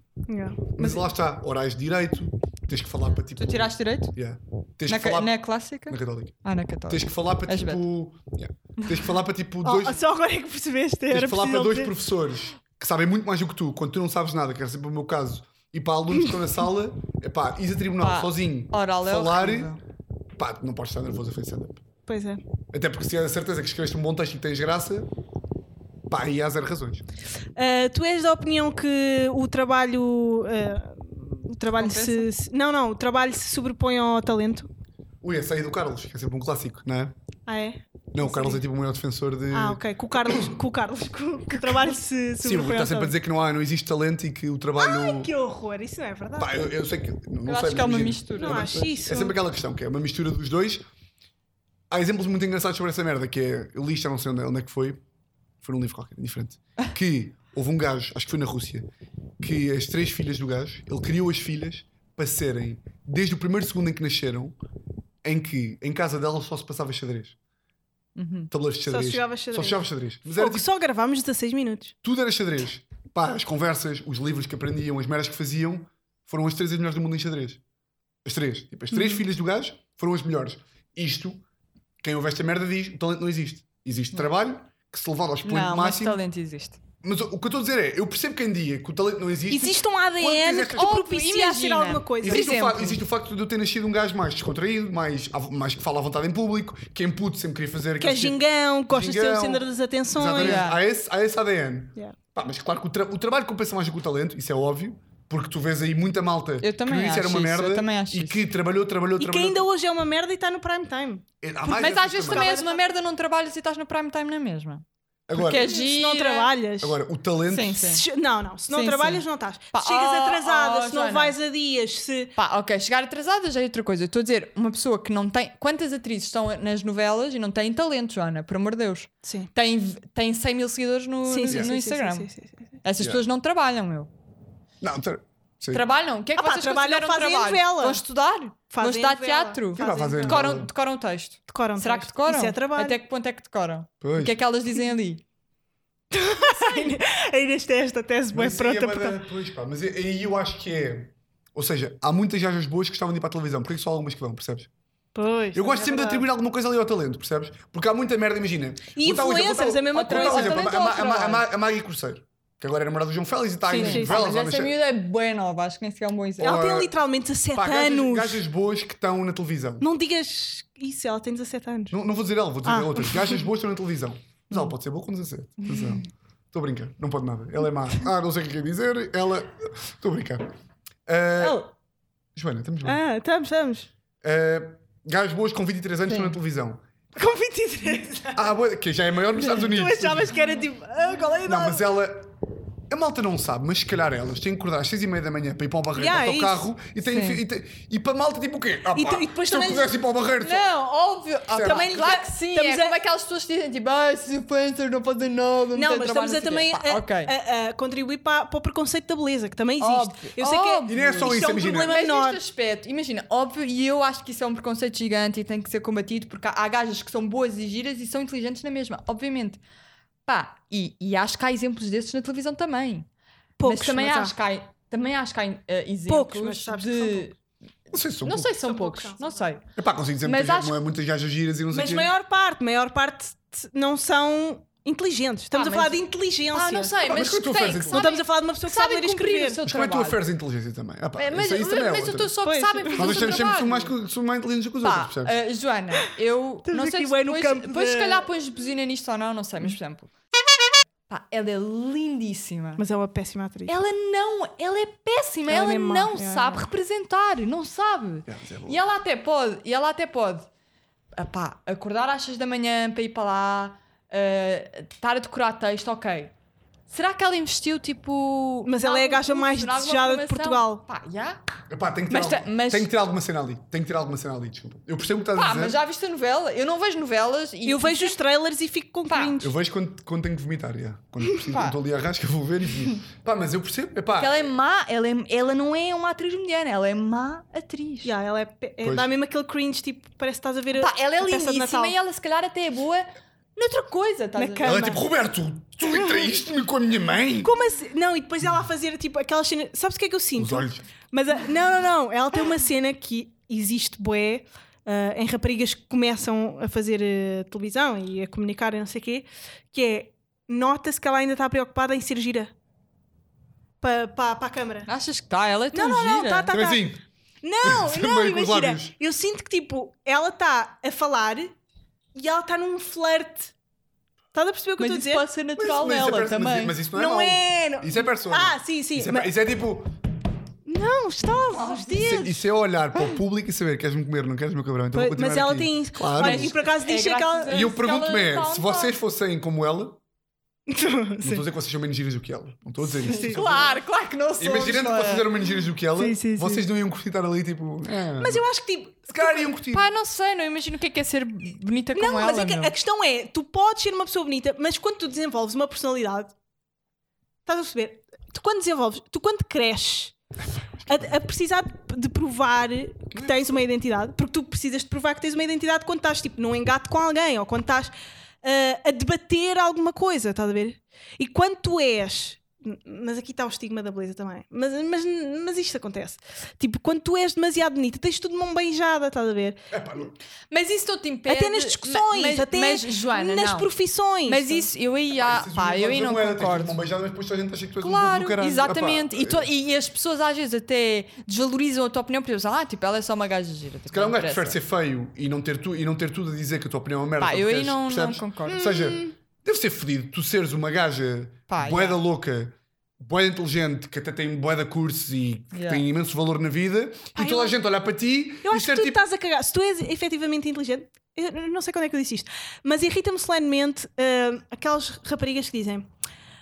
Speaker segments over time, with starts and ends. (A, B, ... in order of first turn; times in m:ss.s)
0:00.3-0:01.0 A
0:00.7-0:05.3 B
0:03.2-0:04.1 C
0:04.9-0:07.8 C
0:05.9-0:06.4 B
0:06.9-0:10.0 B
0:09.6-0:11.9 A
0:11.1-0:19.8 B
0:18.0-0:19.8 C
0:20.4-0:21.8 B
0:22.1-0:22.4 A
0:22.7-0:25.1 B
0:26.1-0:27.0 B
0:27.6-0:34.7 A
0:31.8-0:32.3 C
0:35.2-0:37.2 B
0:37.5-0:38.6 A
0:38.1-0:40.5 B
0:39.5-0:43.1 A
0:42.4-0:45.3 B
0:44.8-0:46.7 A
0:46.4-0:50.8 B
0:47.5-0:48.9 C
0:48.4-0:49.4 A
0:51.9-0:55.0 B
0:55.6-0:58.9 B
0:59.4-1:04.6 B
1:05.2-1:07.4 B
1:08.2-1:08.5 C
1:08.5-1:10.6 B
1:08.9-1:11.9 A
1:12.0-1:17.6 B
1:18.2-1:21.4 B
1:18.9-1:19.2 C
1:22.0-1:26.2 B
1:25.4-1:26.8 C
1:27.0-1:30.9 B
1:29.5-1:32.6 A
1:30.8-1:33.0 C
1:32.2-1:49.6 B
1:38.0-1:40.7 A
1:40.4-1:40.8 C
1:46.6-1:48.4 C
1:49.2-1:52.9 A
1:51.4-1:52.5 B
1:51.7-1:54.8 C
1:55.3-1:55.7 B
1:55.4-1:56.5 C
1:55.5-1:57.0 A
1:56.8-1:57.8 B
1:57.5-1:58.0 C
1:57.8-2:02.3 A
1:58.7-2:01.4 C
2:02.4-2:12.3 C
2:09.2-2:09.5 A
2:11.3-2:12.7 A
2:12.8-2:14.1 C
2:14.8-2:15.8 B
2:15.7-2:25.2 C
2:16.4-2:18.0 A
2:18.7-2:20.4 A
2:19.8-2:20.7 B
2:21.5-2:23.0 A
2:24.0-2:24.4 B
2:26.1-2:29.2 A
2:28.3-2:34.7 B
2:35.2-2:36.3 A
2:35.5-2:44.8 B
2:39.0-2:40.8 A
2:39.9-2:41.4 C
2:43.7-2:46.6 C
2:43.7-2:44.2 A
2:46.4-2:48.4 A
2:46.4-2:46.9 B
2:47.5-2:49.9 B
2:49.8-2:52.0 A
2:51.9-3:00.5 B
2:52.6-2:53.4 A
2:55.6-2:56.0 C
3:01.1-3:01.6 B
3:02.4-3:03.0 B
3:02.8-3:03.9 A
3:04.2-3:06.8 B
3:06.1-3:06.3 C
3:07.2-3:08.5 A
3:08.4-3:10.3 B
3:09.4-3:11.9 A
3:11.5-3:12.3 B
3:12.9-3:20.7 B
3:16.0-3:16.6 A
3:17.0-3:17.4 C
3:18.9-3:19.9 A
3:20.4-3:27.3 C
3:21.5-3:22.0 B
3:21.6-3:23.0 A
3:25.7-3:32.4 A
3:29.8-3:39.6 C
3:30.9-3:32.0 B
3:40.3-3:43.1 C
3:43.6-3:44.3 A
3:43.6-3:47.4 C
3:46.1-3:47.3 A
3:47.9-3:48.5 B
3:48.2-3:49.6 C
3:48.6-3:49.4 A
3:49.8-3:52.1 B
3:50.2-3:50.8 C
3:51.7-3:56.9 A
3:55.5-4:00.2 C
3:57.0-3:58.0 B
3:57.9-3:59.6 A
3:59.7-4:02.3 B
4:01.2-4:03.9 C
4:02.4-4:03.4 A
4:02.9-4:05.3 B
4:04.8-4:10.1 C
4:06.7-4:08.3 A
4:11.1-4:12.8 C
4:12.8-4:13.7 A
4:13.7-4:20.5 C
4:15.5-4:16.7 A
4:18.3-4:18.8 B
4:21.2-4:26.3 C
4:26.9-4:31.4 C
4:28.6-4:30.8 A
4:31.7-4:35.8 B
4:32.1-4:32.9 C
4:35.4-4:38.2 C
4:37.7-4:39.5 A
4:39.1-4:39.4 C
4:39.4-4:44.5 B
4:41.5-4:41.8 C
4:44.2-4:48.1 C
4:48.0-4:52.0 A
4:48.8-4:49.1 B
4:50.8-4:54.8 C
4:54.4-4:55.0 A
4:54.6-4:57.5 B
4:57.4-5:12.5 A
5:00.4-5:00.8 B
5:13.8-5:14.9 A
5:14.9-5:16.5 C
5:15.7-5:16.9 A
5:16.5-5:17.0 B
5:17.4-5:21.6 A
5:17.6-5:19.0 B
5:22.2-5:23.5 A
5:24.3-5:25.2 A
5:24.8-5:26.8 C
5:25.6-5:30.0 B
5:26.9-5:29.3 A
5:30.7-5:32.3 A
5:31.5-5:32.3 C
5:32.0-5:36.5 B
5:34.9-5:37.6 A
5:36.2-5:39.0 C
5:37.5-5:40.0 B
5:40.7-5:41.4 A
5:41.2-5:43.8 B
5:42.8-5:43.4 A
5:43.0-5:45.3 C
5:44.4-5:48.4 B
5:46.0-5:46.6 A
5:48.2-5:49.5 A
5:49.1-5:49.9 B
5:49.7-5:52.7 C
5:51.9-5:56.3 A
5:57.5-6:00.2 A
6:00.8-6:01.1 B
6:00.9-6:19.6 A
6:19.7-6:20.2 B
6:20.5-6:23.7 C
6:21.3-6:24.7 A
6:24.2-6:26.8 C
6:25.2-6:29.5 B
6:27.8-6:34.6 C
6:33.9-6:49.0 B
6:37.2-6:39.0 C
6:38.7-6:39.0 A
6:41.5-6:42.0 C
6:45.5-6:45.8 C
6:47.2-6:47.6 A
6:48.4-6:55.9 A